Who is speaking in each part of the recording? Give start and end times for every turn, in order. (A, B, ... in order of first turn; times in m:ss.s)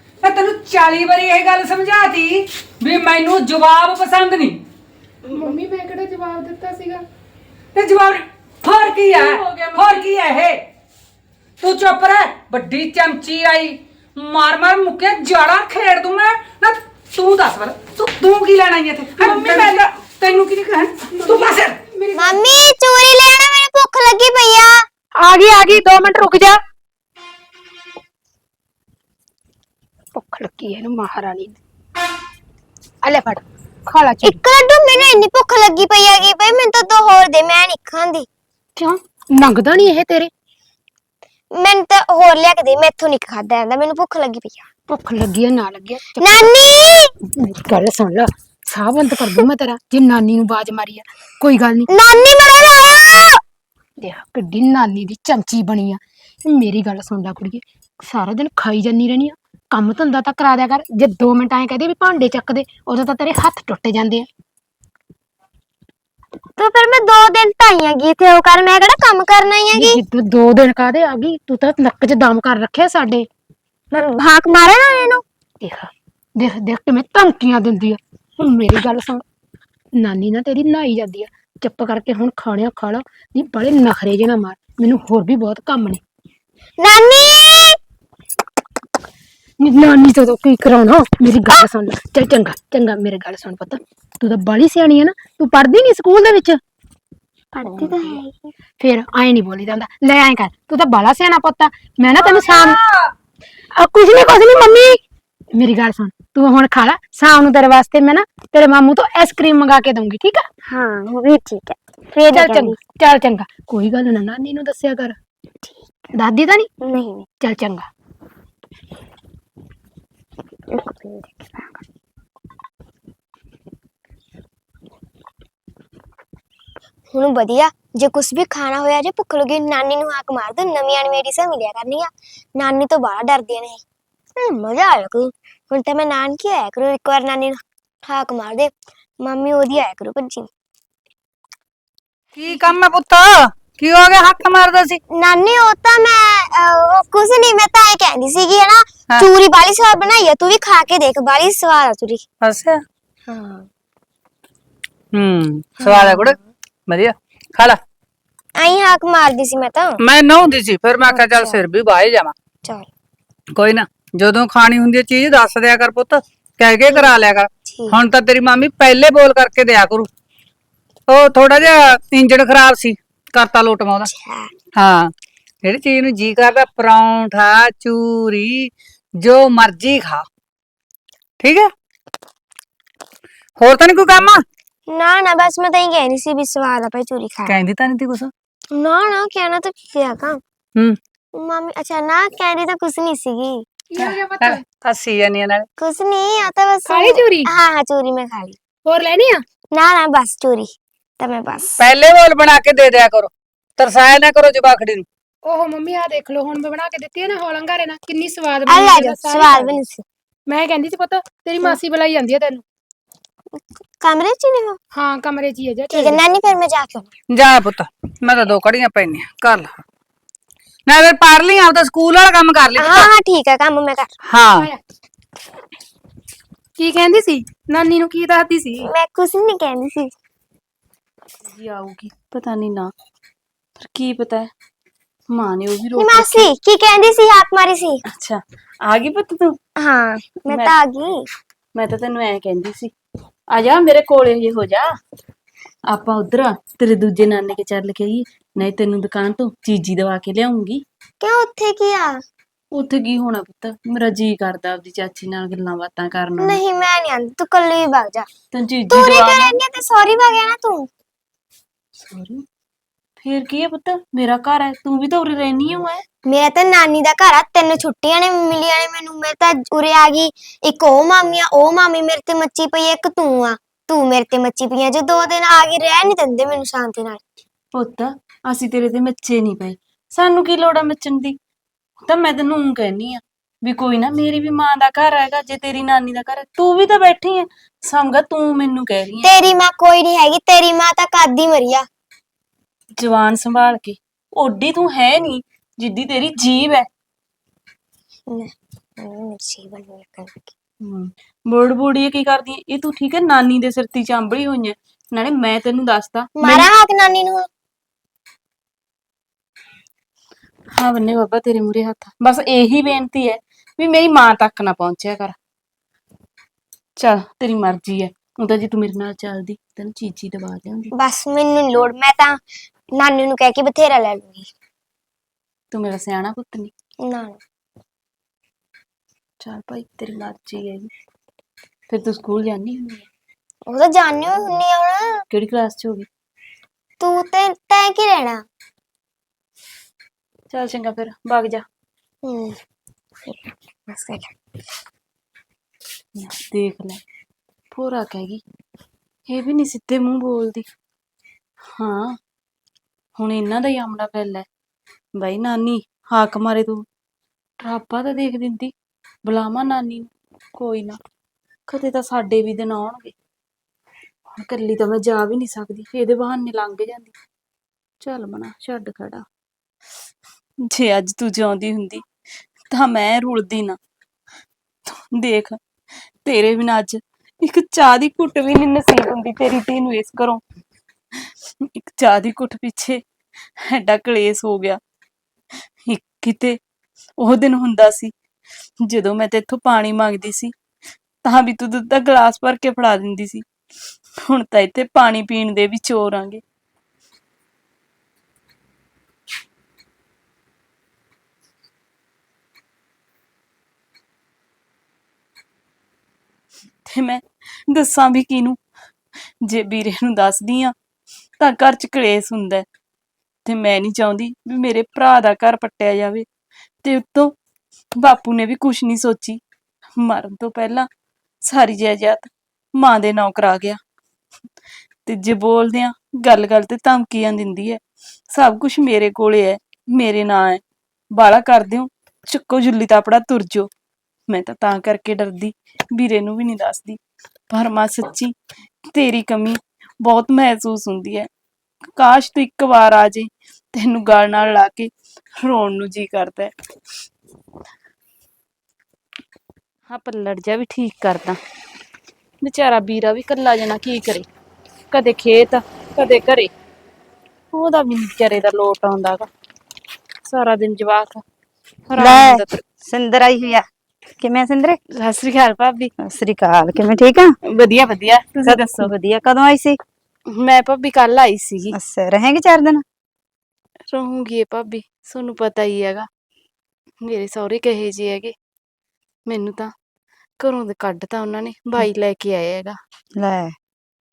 0:00.2-0:04.6 A
0:05.3-0:07.0 B
0:07.8-0:10.6 A
0:09.2-0:10.0 C
0:11.6-0:21.8 A
0:19.2-0:19.8 B
0:21.1-0:22.4 B
0:22.2-0:24.8 D
0:25.2-0:26.6 B
0:30.2-0:31.6 B
0:33.0-0:34.4 B
0:34.2-0:38.3 D
0:38.8-0:40.3 B
0:41.6-0:44.7 D
0:44.9-0:46.5 B
0:46.2-0:47.1 D
0:47.4-0:51.9 B
0:51.9-0:53.4 D
0:54.0-1:04.3 B
1:06.6-1:10.0 D
1:09.7-1:13.3 B
1:13.9-1:15.2 D
1:15.6-1:19.2 B
1:20.0-1:26.0 B
1:26.8-1:27.8 D
1:29.6-1:36.6 B
1:37.5-1:38.2 B
1:37.7-1:38.5 D
1:38.8-1:42.8 B
1:42.4-1:42.7 D
1:43.8-1:45.0 B
1:45.6-1:50.4 B
1:50.7-1:52.8 D
1:52.1-1:55.2 B
1:55.6-1:56.1 D
1:56.2-1:56.7 B
1:56.8-1:57.3 D
1:57.4-1:57.9 B
2:00.7-2:01.8 D
2:07.1-2:13.8 D
2:14.4-2:18.7 D
2:19.2-2:20.5 D
2:22.3-2:25.0 A
2:25.2-2:32.2 D
2:32.4-2:32.8 A
2:33.3-2:33.7 D
2:35.1-2:36.4 A
2:35.8-2:36.4 D
2:36.9-2:37.8 A
2:38.6-2:40.0 D
2:40.0-2:42.3 A
2:41.1-2:41.6 D
2:43.6-2:50.1 A
2:46.9-2:48.0 D
2:51.1-2:54.1 A
2:54.1-2:54.5 D
2:54.8-2:55.1 A
2:55.6-3:00.2 A
3:01.4-3:01.7 A
3:03.6-3:04.4 A
3:04.9-3:07.6 D
3:07.5-3:08.3 A
3:08.7-3:10.4 D
3:11.3-3:13.7 D
3:13.9-3:14.7 B
3:14.0-3:15.7 A
3:15.8-3:18.6 D
3:16.9-3:17.5 B
3:18.9-3:19.4 B
3:19.7-3:21.8 D
3:21.8-3:25.0 A
3:25.4-3:29.8 B
3:28.7-3:30.0 D
3:30.5-3:32.6 B
3:33.6-3:34.8 D
3:34.9-3:36.2 B
3:35.9-3:37.1 D
3:37.3-3:39.8 A
3:40.9-3:43.1 A
3:42.8-3:44.1 D
3:44.3-3:44.7 A
3:46.8-3:48.9 B
3:48.8-3:50.1 D
3:51.5-3:52.9 C
3:53.8-3:54.5 C
3:55.3-3:56.5 C
3:56.0-3:58.0 D
3:58.1-3:59.6 C
3:59.8-4:01.3 D
4:00.5-4:00.8 C
4:01.8-4:02.9 C
4:03.5-4:04.9 C
4:05.9-4:10.8 C
4:11.2-4:12.2 D
4:12.7-4:16.6 C
4:16.4-4:18.3 D
4:18.5-4:19.6 C
4:18.9-4:20.9 D
4:22.1-4:22.4 C
4:23.2-4:26.0 C
4:26.3-4:37.2 D
4:37.7-4:41.4 C
4:42.1-4:49.4 C
4:49.2-4:51.9 D
4:53.0-4:56.9 C
4:58.3-5:00.5 D
5:00.8-5:06.7 C
5:06.4-5:07.5 D
5:10.8-5:15.4 C
5:17.0-5:20.9 C
5:21.0-5:22.4 D
5:23.0-5:24.5 D
5:25.7-5:26.7 C
5:27.0-5:27.4 D
5:29.4-5:30.9 C
5:31.9-5:33.1 C
5:33.7-5:35.1 D
5:35.3-5:36.1 C
5:37.0-5:38.4 D
5:40.5-5:41.6 C
5:42.2-5:42.6 D
5:43.3-5:44.3 D
5:46.2-5:47.0 C
5:47.7-5:48.4 C
5:49.3-5:50.7 C
5:51.8-5:52.2 C
5:53.2-5:54.5 C
5:55.2-5:56.8 C
5:57.6-5:58.7 C
5:59.2-6:01.0 C
6:01.7-6:03.1 C
6:04.3-6:07.2 C
6:08.0-6:09.2 C
6:10.7-6:12.0 C
6:12.7-6:13.8 C
6:14.9-6:15.6 C
6:16.2-6:20.4 C
6:21.6-6:23.0 C
6:23.6-6:24.8 C
6:25.9-6:26.6 C
6:27.2-6:28.1 C
6:28.8-6:30.5 C
6:31.2-6:33.4 C
6:34.2-6:36.4 C
6:46.8-6:48.6 C
6:49.4-6:50.7 C
6:51.4-6:52.6 C
6:53.5-6:56.3 C
6:56.8-6:57.4 C
6:58.0-6:59.4 C
7:00.0-7:00.9 C
7:01.5-7:03.8 C
7:05.1-7:07.8 C
7:08.3-7:10.6 C
7:11.1-7:13.7 C
7:14.3-7:17.0 C
7:17.5-7:21.3 C
7:22.0-7:26.5 C
7:29.9-7:31.4 C
7:32.4-7:34.3 C
7:34.9-7:36.5 C
7:37.5-7:39.3 C
7:40.2-7:41.2 C
7:41.9-7:42.6 C
7:42.0-7:43.7 E
7:44.2-7:44.8 E
7:44.9-7:45.9 C
7:46.0-7:47.3 E
7:47.5-7:48.9 C
7:48.4-7:49.8 E
7:50.3-7:51.8 C
7:51.7-7:52.8 E
7:53.9-7:56.1 C
7:57.0-7:58.3 C
7:59.3-7:59.7 C
8:00.4-8:02.8 C
8:03.2-8:03.6 E